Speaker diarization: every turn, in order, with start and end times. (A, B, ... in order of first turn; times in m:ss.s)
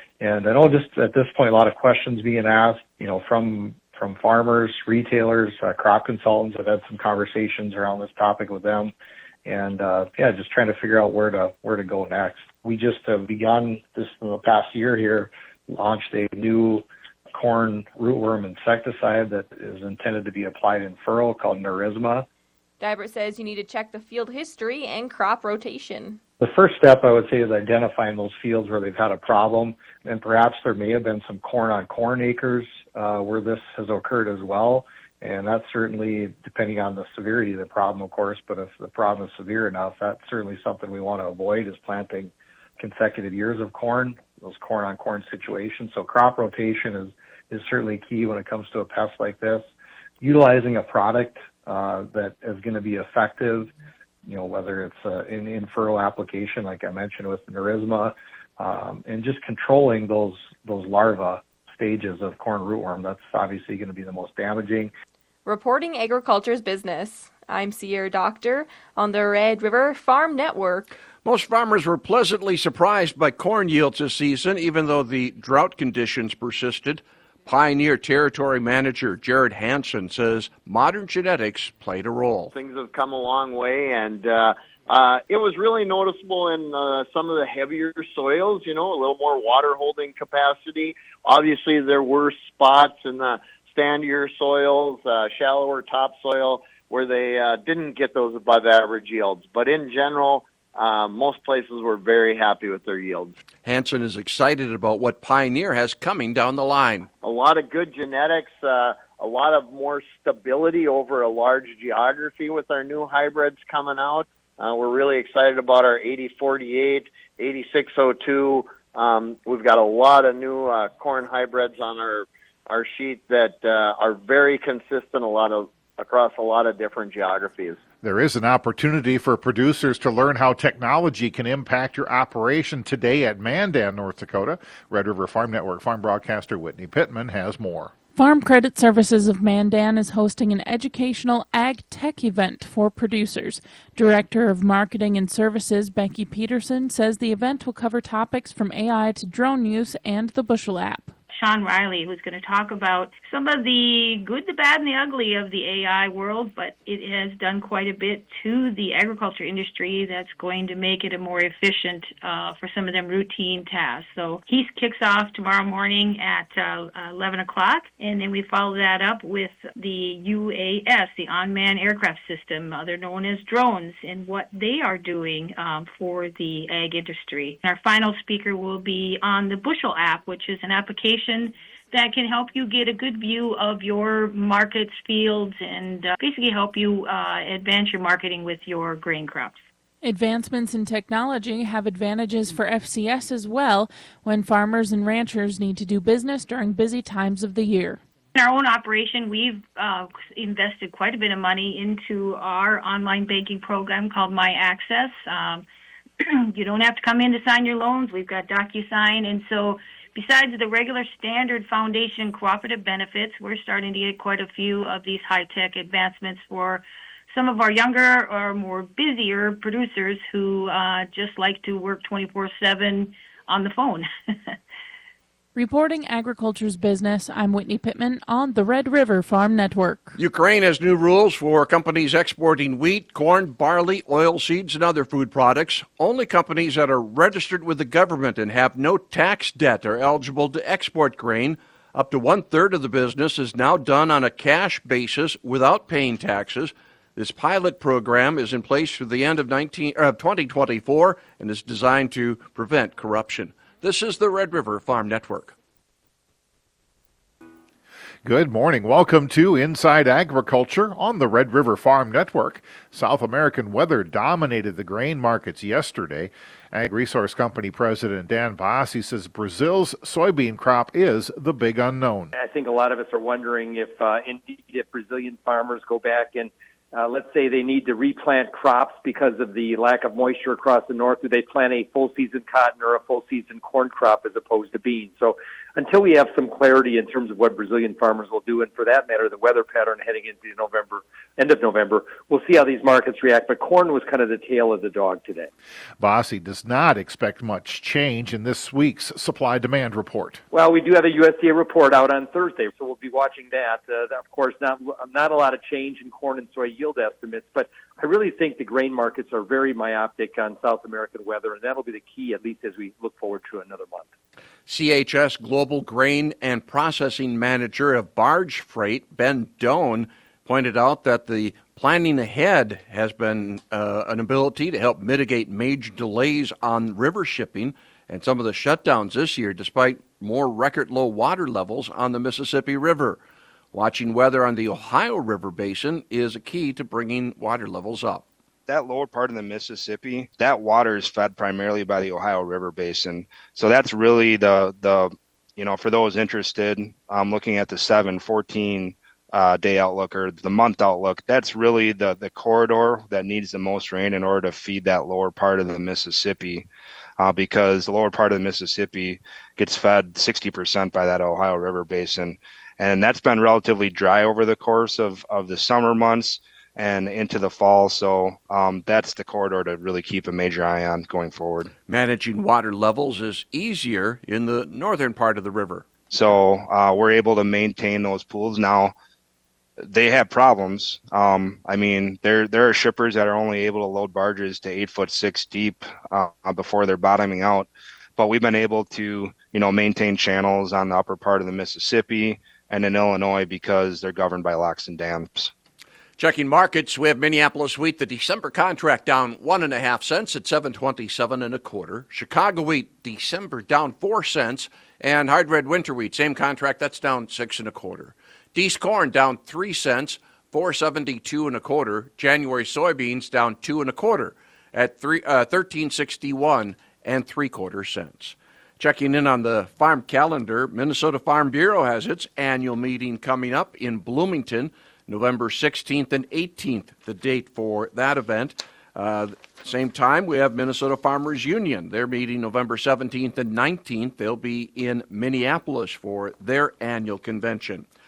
0:00.2-0:08.9 A
0:09.4-0:22.3 A
0:22.8-0:26.2 B
0:26.4-0:49.7 A
0:50.2-0:53.7 A
0:54.3-1:04.9 A
1:05.4-1:10.9 B
1:11.2-1:22.5 C
1:22.5-1:43.4 D
1:43.6-1:47.1 C
1:47.2-2:07.8 D
2:08.0-2:17.9 E
2:18.2-2:31.1 F
2:31.3-3:09.6 G
3:10.0-3:18.0 F
3:18.4-3:25.6 G
3:26.5-3:44.6 G
3:45.6-3:50.2 F
3:50.2-4:15.5 C
4:18.2-4:32.3 E
4:32.4-4:55.5 H
4:56.0-5:00.4 E
5:00.5-5:14.1 H
5:14.7-5:33.2 C
5:33.7-5:38.2 C
5:38.7-5:56.7 I
5:57.2-6:11.7 I
6:11.9-6:15.9 C
6:16.1-6:18.9 I
6:19.9-6:35.5 I
6:36.2-7:17.9 C